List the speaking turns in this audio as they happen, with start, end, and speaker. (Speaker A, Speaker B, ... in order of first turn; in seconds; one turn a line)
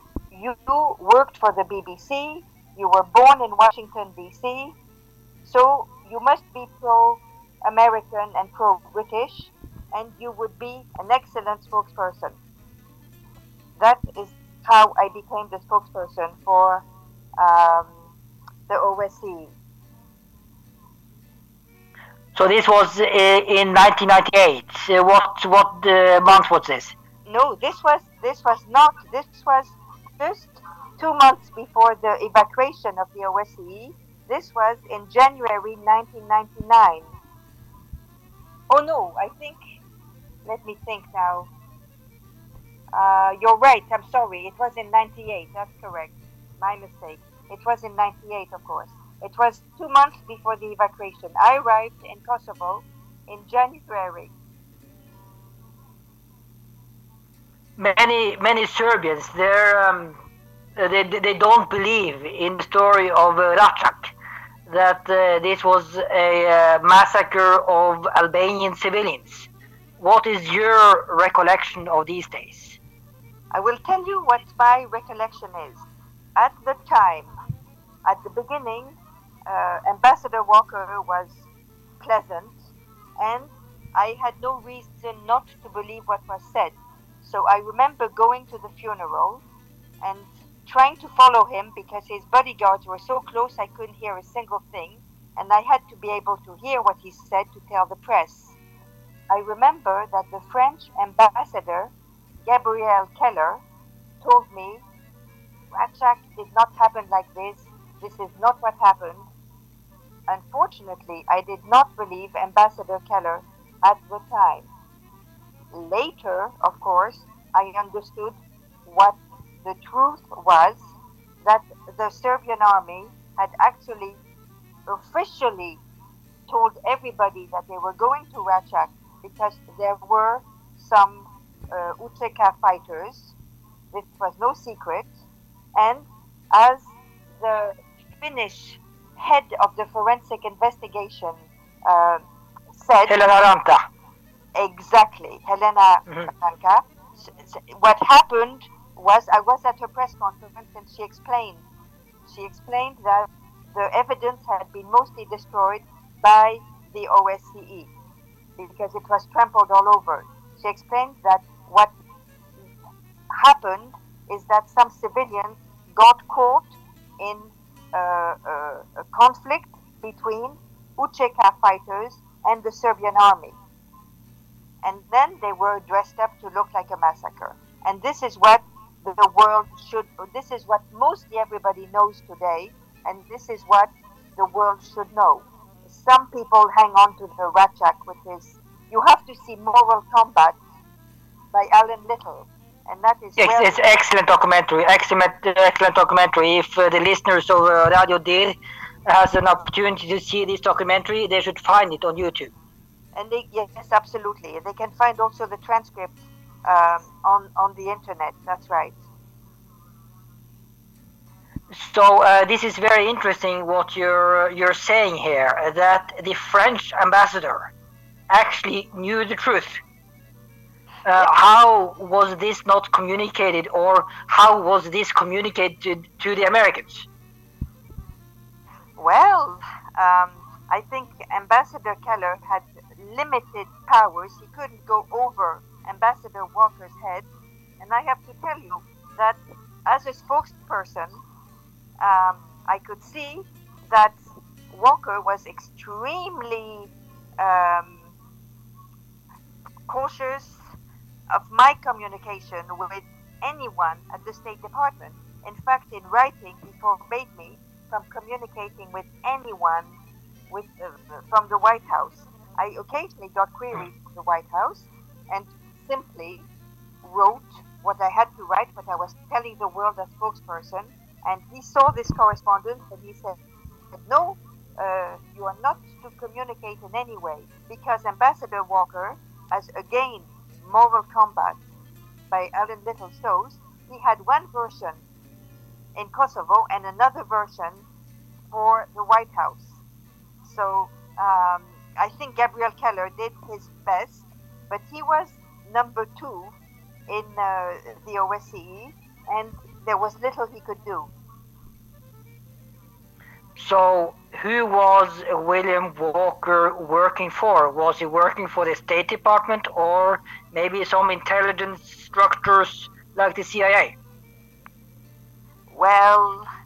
Speaker A: 0.3-4.8
Speaker A: 5.5-12.4
Speaker A: 13.8-16.9
Speaker A: 17.4-18.1
Speaker A: 18.7-19.5
Speaker B: 22.4-26.9
Speaker A: 27.3-37.1
Speaker A: 38.7-39.6
Speaker A: 40.5-41.5
Speaker A: 42.9-54.3
Speaker B: 57.8-60.2
Speaker B: 60.8-64.1
Speaker B: 64.7-69.5
Speaker B: 70.0-72.8
Speaker A: 73.5-75.8
Speaker A: 76.4-77.3
Speaker A: 78.0-81.4
Speaker A: 82.0-82.6
Speaker A: 83.2-89.4
Speaker A: 90.0-98.6
Speaker A: 99.3-101.9
Speaker A: 102.5-103.6
Speaker A: 104.2-104.8
Speaker A: 105.7-109.3
Speaker A: 110.3-114.7
Speaker A: 115.7-120.9
Speaker A: 121.4-124.2
Speaker A: 124.9-125.8
Speaker A: 126.5-133.3
Speaker A: 133.9-135.1
Speaker A: 135.8-142.2
Speaker A: 142.7-143.2
Speaker B: 143.1-143.8
Speaker A: 144.6-151.6
Speaker A: 152.3-157.9
Speaker A: 158.6-161.9
Speaker A: 163.3-173.6
Speaker A: 174.8-190.6
Speaker A: 191.5-193.8
Speaker B: 193.4-202.5
Speaker A: 203.2-209.0
Speaker B: 211.7-217.7
Speaker B: 218.3-219.8
Speaker B: 221.1-227.1
Speaker A: 229.0-237.3
Speaker A: 237.8-241.2
Speaker A: 242.0-248.1
Speaker A: 249.9-250.6
Speaker A: 251.3-260.0
Speaker A: 260.5-266.4
Speaker A: 267.0-273.4
Speaker A: 273.9-281.6
Speaker A: 282.3-285.0
Speaker A: 286.0-287.9
Speaker A: 288.5-289.8
Speaker A: 290.4-296.5
Speaker A: 297.1-301.1
Speaker B: 303.6-314.0
Speaker A: 315.7-316.5